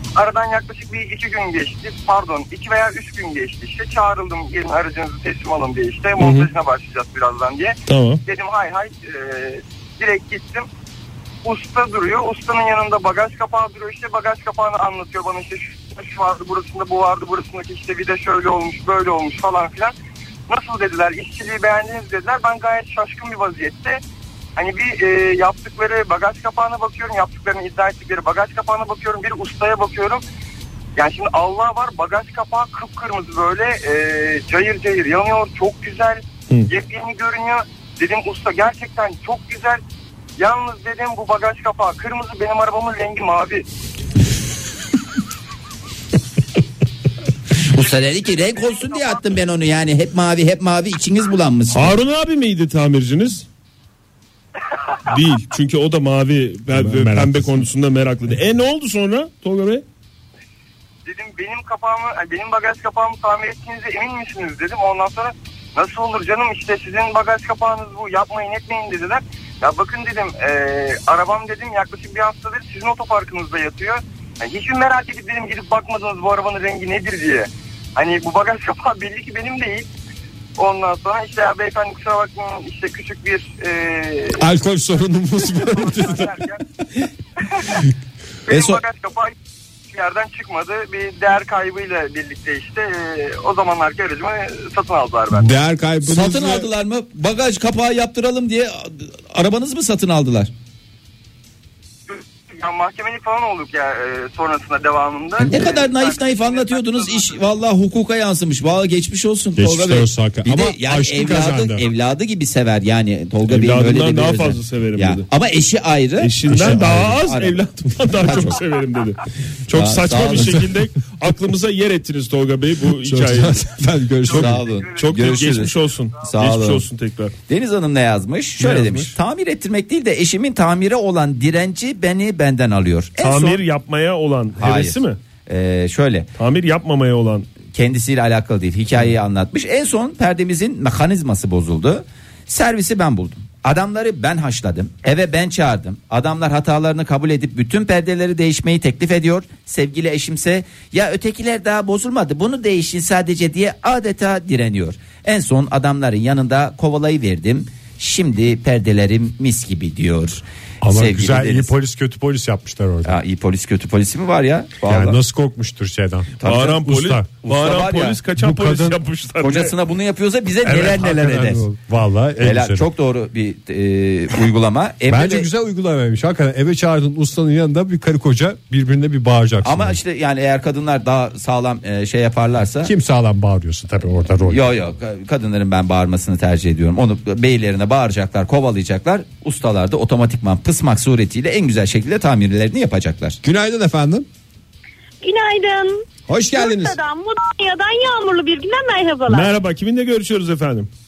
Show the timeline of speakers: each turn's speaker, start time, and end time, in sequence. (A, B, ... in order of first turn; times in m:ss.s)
0:00.1-0:10.7 A
0:06.2-0:06.5 B
0:07.9-0:08.2 B
0:11.4-0:19.9 A
0:20.5-0:24.0 A
0:24.6-0:30.2 A
0:31.0-0:39.8 A
0:40.4-0:43.6 A
0:47.7-0:52.0 C
0:47.8-0:49.2 A
0:51.7-0:53.4 B
0:55.1-0:59.8 B
0:56.7-0:57.6 D
1:01.1-1:19.9 A
1:20.6-1:24.4 A
1:24.4-1:26.4 D
1:25.4-1:26.6 A
1:27.5-1:27.8 A
1:28.5-1:29.4 A
1:29.9-1:35.5 A
1:35.3-1:36.7 D
1:36.1-1:40.5 C
1:42.1-1:47.4 A
1:45.4-1:57.6 C
1:49.6-1:51.8 D
1:53.5-1:55.2 B
1:56.2-2:03.7 B
1:56.5-1:57.1 D
1:58.2-1:58.6 C
1:59.7-2:00.6 C
2:02.9-2:04.6 D
2:04.3-2:05.7 A
2:04.3-2:06.9 C
2:05.0-2:07.3 B
2:07.5-2:13.6 C
2:08.6-2:09.1 B
2:13.2-2:15.2 B
2:14.6-2:16.3 C
2:16.4-2:17.5 B
2:17.7-2:41.7 C
2:40.8-2:43.2 D
2:43.0-2:45.2 C
2:44.8-2:47.3 D
2:46.4-2:46.8 C
2:46.4-2:49.7 B
2:47.4-2:48.2 C
2:48.4-2:49.0 D
2:49.4-2:51.6 C
2:50.6-2:52.9 D
2:52.4-2:55.5 C
2:55.1-3:00.0 D
2:59.6-3:02.9 C
3:02.8-3:04.7 D
3:04.4-3:13.4 C
3:13.4-3:14.3 D
3:15.2-3:19.5 E
3:16.3-3:17.0 D
3:19.3-3:20.9 B